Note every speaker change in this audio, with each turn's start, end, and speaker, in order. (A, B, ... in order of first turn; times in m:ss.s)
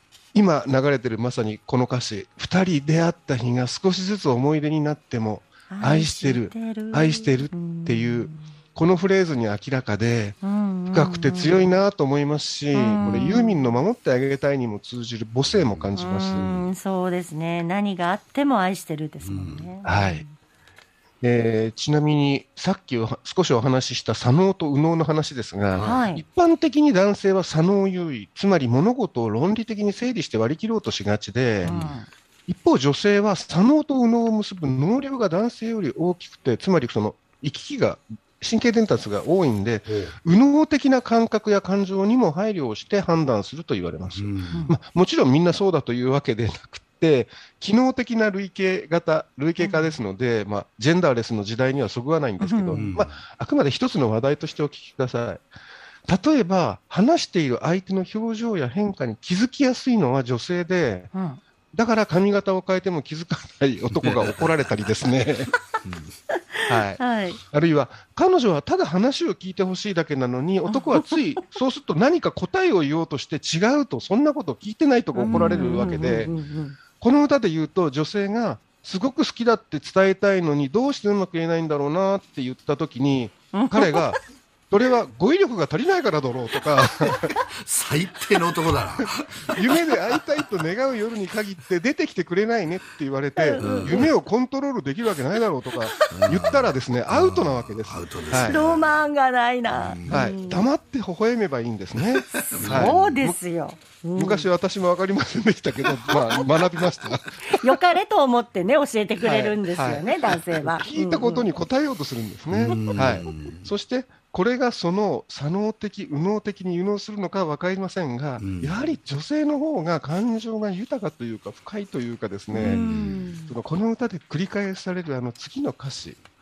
0:00.3-0:10.4 A
0:05.7-0:08.4 B
0:10.4-0:11.6 B
0:10.9-0:16.6 A
0:12.7-0:13.7 B
0:15.5-0:15.9 C
0:16.0-0:20.4 B
0:19.2-0:19.7 C
0:19.8-0:20.2 A
0:21.2-0:31.7 A
0:25.7-0:26.0 C
0:25.8-0:26.2 B
0:31.6-0:32.0 C
0:31.6-0:32.1 B
0:32.5-0:55.4 A
0:39.8-0:40.2 C
0:44.1-0:44.7 C
0:44.5-0:44.8 B
0:49.6-0:50.0 B
0:52.4-0:52.9 B
0:52.8-0:53.2 C
0:56.1-1:01.1 A
1:01.1-1:01.4 B
1:01.7-1:05.5 A
1:04.0-1:04.5 C
1:05.8-1:06.2 C
1:06.5-1:07.4 B
1:06.7-1:16.3 A
1:10.7-1:11.4 B
1:15.2-1:16.8 B
1:15.3-1:15.8 C
1:17.0-1:27.3 A
1:23.5-1:24.1 B
1:27.1-1:30.2 C
1:29.0-1:38.6 A
1:33.4-1:34.1 B
1:33.6-1:34.1 C
1:35.8-1:36.1 B
1:36.1-1:39.0 C
1:38.3-1:40.7 B
1:39.7-1:40.3 C
1:40.1-1:43.4 A
1:42.0-1:43.2 C
1:42.3-1:44.5 B
1:44.2-1:47.7 A
1:46.1-1:46.5 C
1:47.4-1:51.5 B
1:49.2-2:02.9 A
1:52.5-1:53.7 C
1:58.4-1:58.8 C
2:02.5-2:03.6 B
2:02.6-2:03.2 C
2:03.5-2:06.2 A